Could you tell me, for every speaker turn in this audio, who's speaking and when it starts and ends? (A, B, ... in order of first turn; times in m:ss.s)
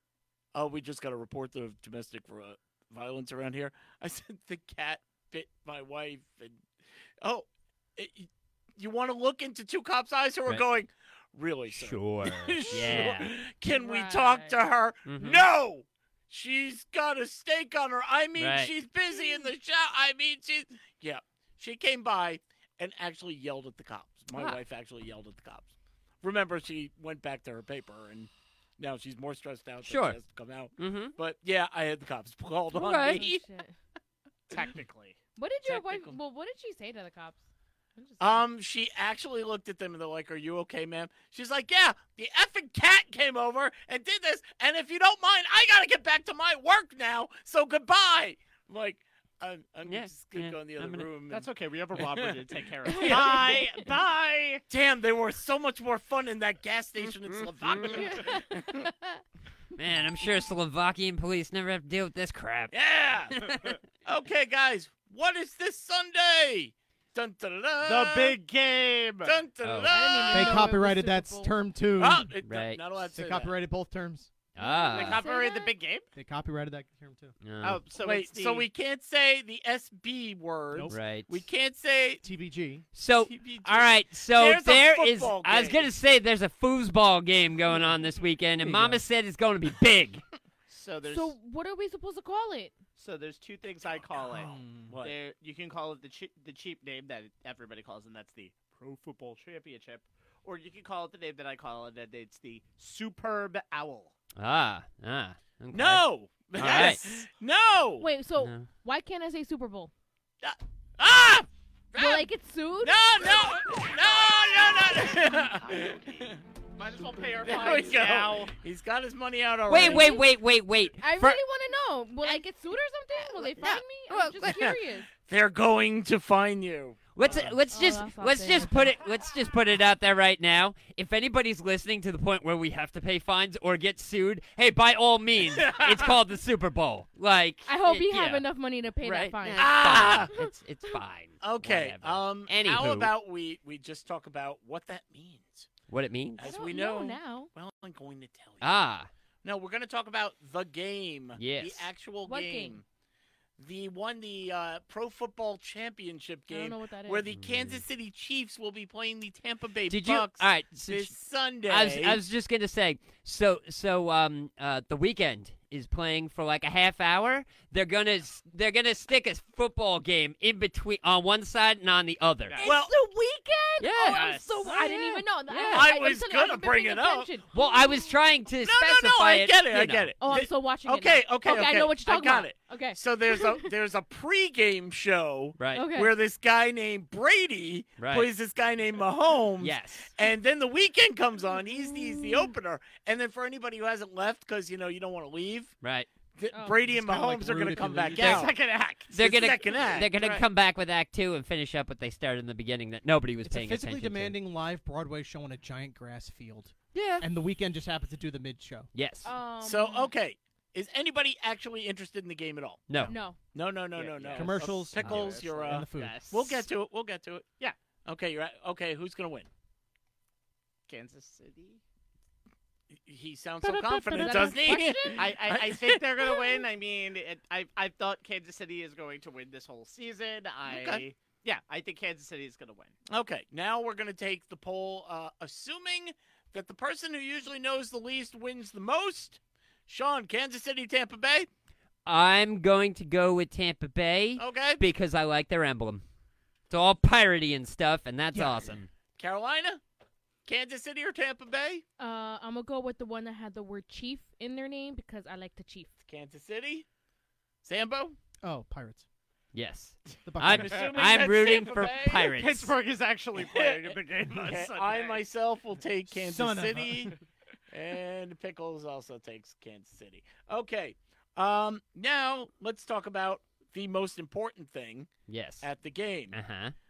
0:00.5-0:06.6 A
0:07.2-0:25.7 A
0:11.7-0:13.3 B
0:12.7-0:13.1 C
0:13.7-0:14.6 C
0:15.1-0:15.4 B
0:18.4-0:18.7 B
0:24.3-0:24.6 B
0:26.2-0:33.4 A
0:29.8-0:30.2 B
0:30.8-0:31.1 B
0:32.7-0:33.2 B
0:32.9-0:33.8 C
0:34.5-0:35.2 D
0:35.4-0:37.4 C
0:35.6-0:36.2 A
0:38.0-0:38.5 C
0:38.2-0:53.6 A
0:49.8-0:51.1 B
0:51.3-0:54.6 D
0:52.9-0:53.8 C
0:54.7-0:58.8 A
0:57.3-0:58.0 B
0:58.0-0:59.2 C
0:59.8-1:02.8 B
1:02.7-1:03.5 A
1:03.3-1:03.8 B
1:04.0-1:08.4 A
1:07.8-1:09.4 D
1:09.2-1:10.7 A
1:09.6-1:10.0 B
1:09.9-1:11.6 C
1:10.3-1:12.3 E
1:12.0-1:13.6 A
1:12.4-1:12.8 B
1:13.1-1:14.3 E
1:14.6-1:15.2 B
1:14.6-1:15.8 C
1:14.9-1:16.1 D
1:16.2-1:17.3 E
1:17.4-1:17.8 B
1:17.6-1:18.7 D
1:18.0-1:22.2 A
1:20.7-1:21.0 E
1:20.9-1:21.4 B
1:22.2-1:22.8 E
1:23.0-1:30.2 B
1:23.2-1:25.9 A
1:28.6-1:29.0 E
1:30.7-1:31.4 D
1:31.1-1:32.8 C
1:33.0-1:44.1 D
1:34.3-1:34.9 E
1:34.9-1:35.2 A
1:44.4-1:47.1 B
1:45.7-1:48.1 A
1:48.0-1:49.9 C
1:48.4-1:48.7 B
1:50.4-1:52.3 A
1:52.0-1:53.6 C
1:52.8-1:56.4 A
1:55.0-1:58.5 D
1:57.4-2:00.2 A
1:59.7-2:01.4 B
1:59.7-2:00.3 C
2:01.0-2:05.1 C
2:03.6-2:04.7 B
2:04.4-2:07.6 A
2:07.2-2:18.4 B
2:07.7-2:08.9 C
2:15.5-2:16.1 A
2:17.6-2:21.0 C
2:19.0-2:23.1 B
2:19.6-2:20.3 A
2:21.4-2:25.7 A
2:25.9-2:26.5 B
2:26.4-2:28.8 A
2:26.4-2:27.5 C
2:28.6-2:29.1 B
2:29.4-2:32.8 A
2:31.4-2:31.9 B
2:32.3-2:32.8 C
2:33.6-2:42.2 A
2:36.5-2:37.2 C
2:37.3-2:37.8 B
2:39.9-2:41.2 B
2:41.7-2:52.6 B
2:52.5-2:52.7 D
2:52.6-2:58.1 C
2:52.6-2:52.9 A
2:53.8-2:54.3 B
2:54.0-2:54.9 D
2:55.5-2:55.9 B
2:55.7-2:57.3 A
2:57.5-3:00.1 B
2:58.6-3:15.8 A
3:00.2-3:03.7 C
3:05.6-3:05.9 B
3:05.7-3:06.1 C
3:08.0-3:08.3 B
3:09.6-3:10.1 B
3:11.9-3:12.5 C
3:15.8-3:16.1 B
3:16.4-3:18.5 A
3:16.5-3:16.8 C
3:16.9-3:18.4 E
3:18.1-3:19.1 D
3:19.1-3:24.4 B
3:19.1-3:20.4 A
3:23.4-3:28.9 E
3:26.9-3:27.3 B
3:28.9-3:29.3 B
3:29.2-3:30.1 C
3:29.6-3:32.9 A
3:32.9-3:33.2 B
3:33.1-3:33.4 C
3:33.5-3:37.5 A
3:34.0-3:36.7 D
3:34.3-3:36.2 E
3:38.1-3:39.5 A
3:40.9-3:41.8 D
3:43.0-3:46.6 A
3:43.7-3:45.3 C
3:45.2-3:52.9 D
3:50.7-3:51.0 A
3:53.1-4:01.5 A
4:02.1-4:06.0 B
4:04.4-4:04.8 A
4:06.7-4:08.9 B
4:08.3-4:08.7 E
4:09.2-4:09.8 A
4:10.5-4:11.8 A
4:12.0-4:15.9 C
4:16.1-4:16.9 A
4:17.6-4:18.2 A
4:18.4-4:19.1 E
4:19.5-4:22.8 B
4:20.2-4:21.1 E
4:20.5-4:22.3 A
4:22.2-4:25.2 D
4:23.4-4:27.2 A
4:26.1-4:27.2 E
4:27.7-4:36.4 A
4:35.3-4:35.7 B
4:36.3-4:36.8 B